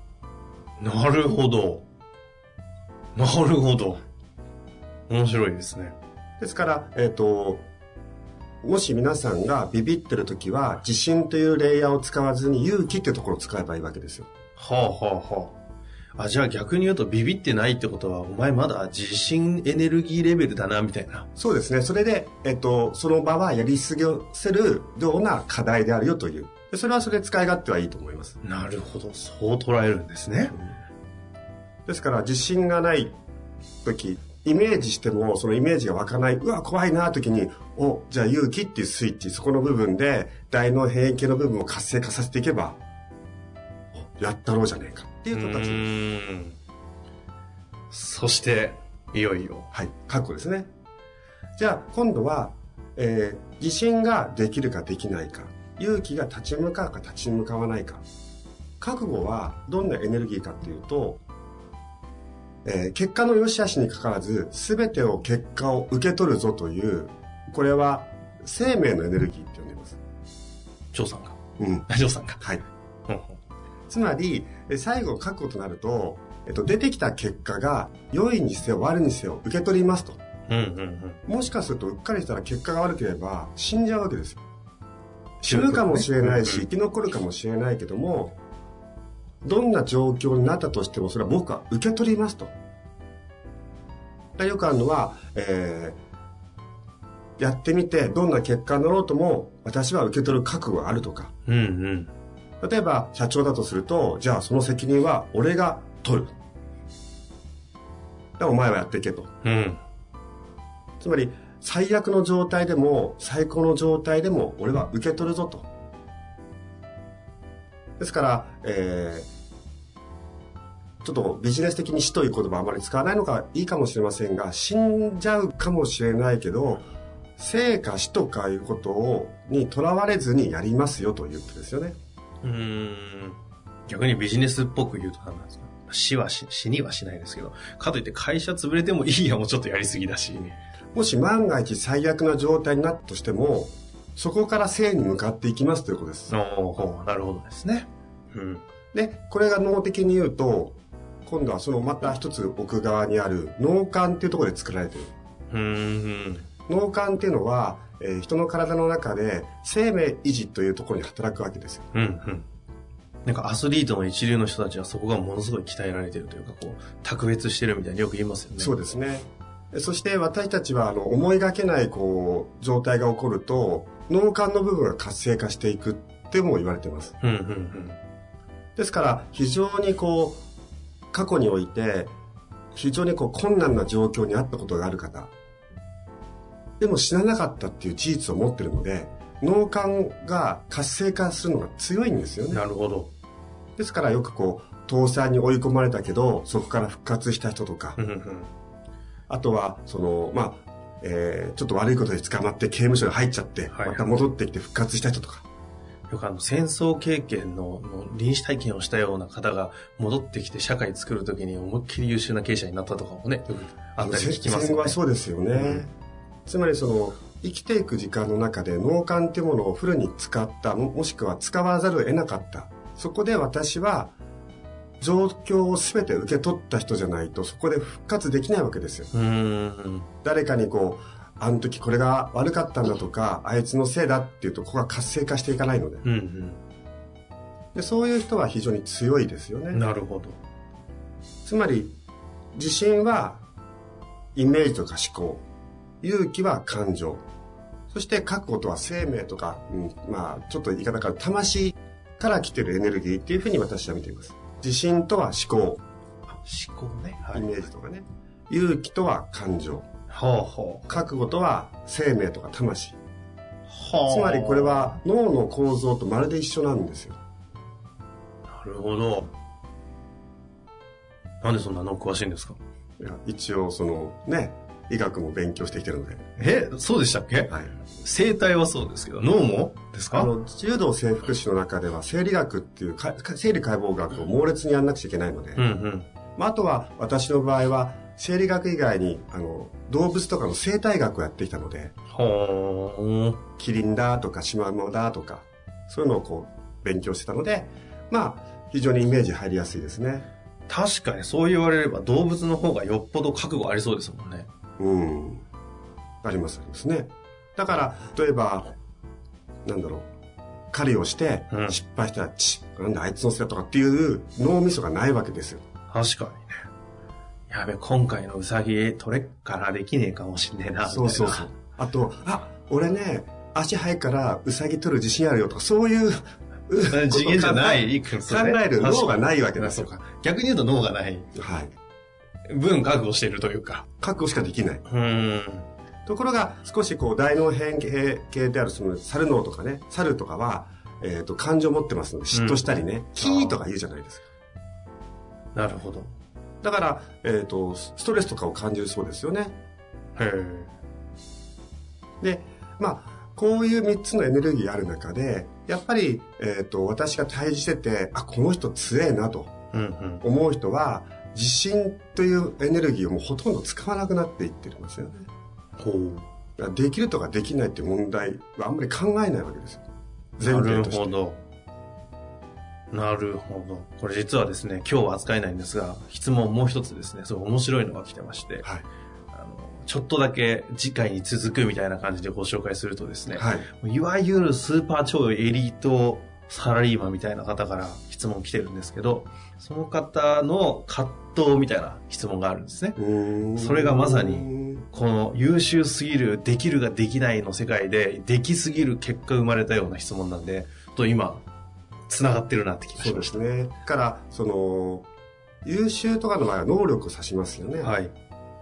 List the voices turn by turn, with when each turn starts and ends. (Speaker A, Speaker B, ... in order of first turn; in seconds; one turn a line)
Speaker A: 0.8-1.8
Speaker A: 3.1-4.0
Speaker A: 5.1-6.0
Speaker B: 6.4-7.7
Speaker B: 8.6-14.3
Speaker A: 14.6-15.6
Speaker A: 16.1-21.3
Speaker B: 21.4-28.4
Speaker A: 28.4-30.5
Speaker B: 31.9-33.1
Speaker B: 33.8-42.8
Speaker B: 44.1-45.9
Speaker A: 45.3-46.6
Speaker A: 47.9-49.7
Speaker B: 49.7-50.7
Speaker B: 51.6-58.0
Speaker B: 58.8-61.2
Speaker B: 62.6-70.0
Speaker A: 70.9-72.4
Speaker B: 71.6-71.9
Speaker A: 73.1-73.4
Speaker B: 73.9-80.2
Speaker A: 80.5-81.2
Speaker B: 81.2-84.4
Speaker B: 85.4-88.4
Speaker A: 85.4-86.7
Speaker B: 89.4-92.5
Speaker B: 94.4-96.0
Speaker B: 97.4-101.3
Speaker A: 101.5-102.1
Speaker B: 102.6-106.3
Speaker B: 108.4-109.3
Speaker A: 109.4-109.8
Speaker B: 111.0-115.7
Speaker B: 118.0-119.3
Speaker B: 121.0-126.9
Speaker B: 127.4-131.9
Speaker A: 132.4-140.6
Speaker B: 140.9-146.3
Speaker A: 146.3-148.6
Speaker B: 148.9-155.1
Speaker A: 155.5-156.5
Speaker B: 156.7-161.9
Speaker A: 161.9-162.5
Speaker A: 163.2-168.7
Speaker B: 168.6-177.2
Speaker A: 177.2-178.0
Speaker B: 178.8-180.4
Speaker B: 181.1-182.1
Speaker B: 182.7-185.3
Speaker B: 186.8-192.6
Speaker A: 192.5-193.1
Speaker B: 193.8-198.0
Speaker A: 198.0-198.5
Speaker B: 199.3-205.4
Speaker A: 203.7-204.1
Speaker A: 206.1-215.0
Speaker B: 214.0-215.9
Speaker A: 215.5-215.8
Speaker B: 216.5-224.1
Speaker B: 225.0-229.1
Speaker A: 229.1-230.1
Speaker B: 230.2-236.1
Speaker A: 236.0-236.6
Speaker B: 237.7-239.8
Speaker A: 239.7-240.4
Speaker B: 241.4-241.9
Speaker B: 242.5-243.4
Speaker B: 244.3-245.4
Speaker B: 246.0-247.2
Speaker B: 247.9-255.8
Speaker A: 256.3-257.6
Speaker B: 257.3-259.9
Speaker A: 260.1-261.1
Speaker B: 260.9-263.0
Speaker A: 263.7-264.9
Speaker B: 264.1-267.2
Speaker A: 268.5-269.3
Speaker A: 271.4-272.6
Speaker B: 273.0-276.2
Speaker A: 276.4-280.3
Speaker B: 280.1-285.6
Speaker A: 285.6-286.1
Speaker B: 286.4-291.9
Speaker A: 292.1-293.4
Speaker B: 293.6-300.3
Speaker A: 300.7-304.5
Speaker B: 304.8-305.4
Speaker B: 306.2-308.7
Speaker B: 309.6-310.1
Speaker B: 310.7-315.6
Speaker A: 311.5-311.8
Speaker A: 315.9-316.5
Speaker A: 317.5-321.5
Speaker B: 320.9-329.9
Speaker A: 326.9-331.3
Speaker B: 331.3-331.7
Speaker A: 332.5-333.9
Speaker B: 334.0-334.8
Speaker A: 334.9-335.7
Speaker B: 336.1-344.2
Speaker A: 342.3-343.6
Speaker A: 345.5-346.1
Speaker B: 346.6-349.6
Speaker A: 350.2-350.7
Speaker B: 352.2-359.5
Speaker A: 359.7-360.2
Speaker B: 360.2-365.3
Speaker A: 365.8-366.3
Speaker B: 366.6-369.8
Speaker B: 370.4-371.2
Speaker A: 370.4-371.4
Speaker A: 372.9-378.6
Speaker A: 379.3-393.0
Speaker B: 383.3-383.7
Speaker B: 392.9-394.8
Speaker A: 393.6-401.4
Speaker A: 402.1-403.4
Speaker B: 403.0-405.1
Speaker B: 405.6-408.0
Speaker A: 407.8-408.1